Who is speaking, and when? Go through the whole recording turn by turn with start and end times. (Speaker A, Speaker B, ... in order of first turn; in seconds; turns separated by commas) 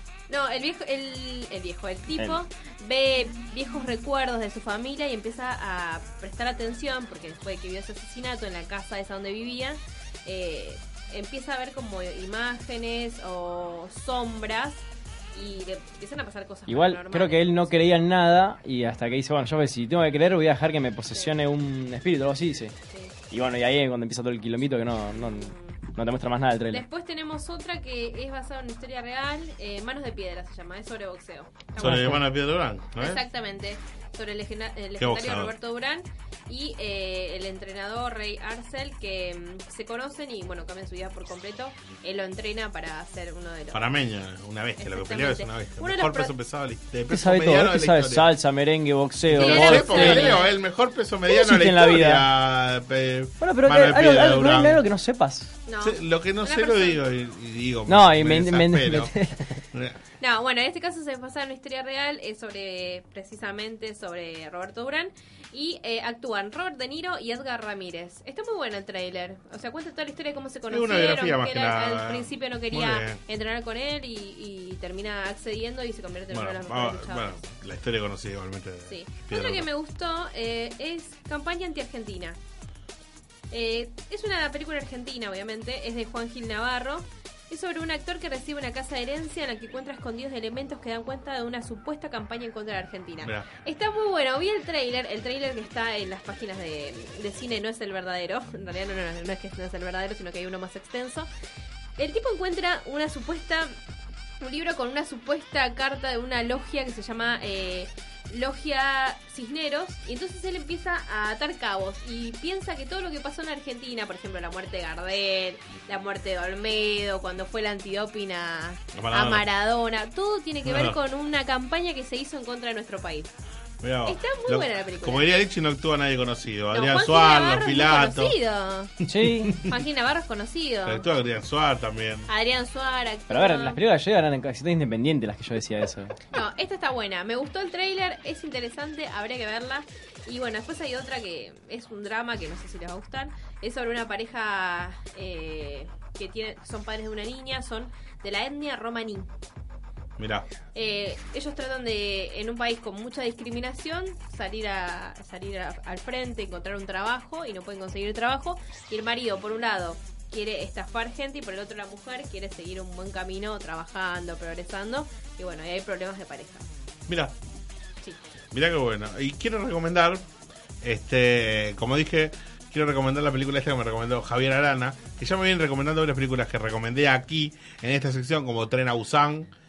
Speaker A: 0.3-17.9, Speaker B: 16.7-22.7, Speaker B: 23.3-26.8, Speaker A: 25.1-25.8, Speaker A: 26.7-32.2, Speaker C: 31.8-33.2, Speaker B: 31.8-32.2, Speaker A: 33.0-43.8, Speaker C: 35.0-35.5, Speaker C: 43.7-48.3, Speaker A: 44.8-46.3, Speaker B: 47.1-50.4, Speaker C: 49.3-54.8, Speaker A: 49.3-50.5, Speaker B: 51.2-52.3, Speaker B: 53.4-55.5, Speaker A: 55.7-57.0, Speaker C: 55.8-59.1, Speaker B: 57.9-59.6, Speaker C: 59.7-60.0, Speaker A: 60.2-77.4, Speaker C: 70.7-73.2, Speaker C: 76.3-79.7, Speaker A: 78.9-82.4, Speaker A: 83.5-101.3, Speaker A: 102.0-103.8, Speaker A: 104.4-123.3, Speaker C: 118.9-119.5, Speaker C: 120.6-121.0, Speaker C: 123.8-128.3, Speaker A: 124.0-125.2, Speaker A: 126.7-128.9, Speaker C: 129.0-129.8, Speaker B: 129.1-129.6, Speaker A: 129.7-131.0, Speaker C: 130.8-132.3, Speaker A: 132.3-133.8, Speaker B: 133.3-136.1, Speaker A: 136.3-149.3, Speaker C: 150.2-150.5, Speaker A: 150.7-166.7, Speaker C: 167.1-167.3, Speaker C: 168.5-170.2, Speaker C: 170.8-179.5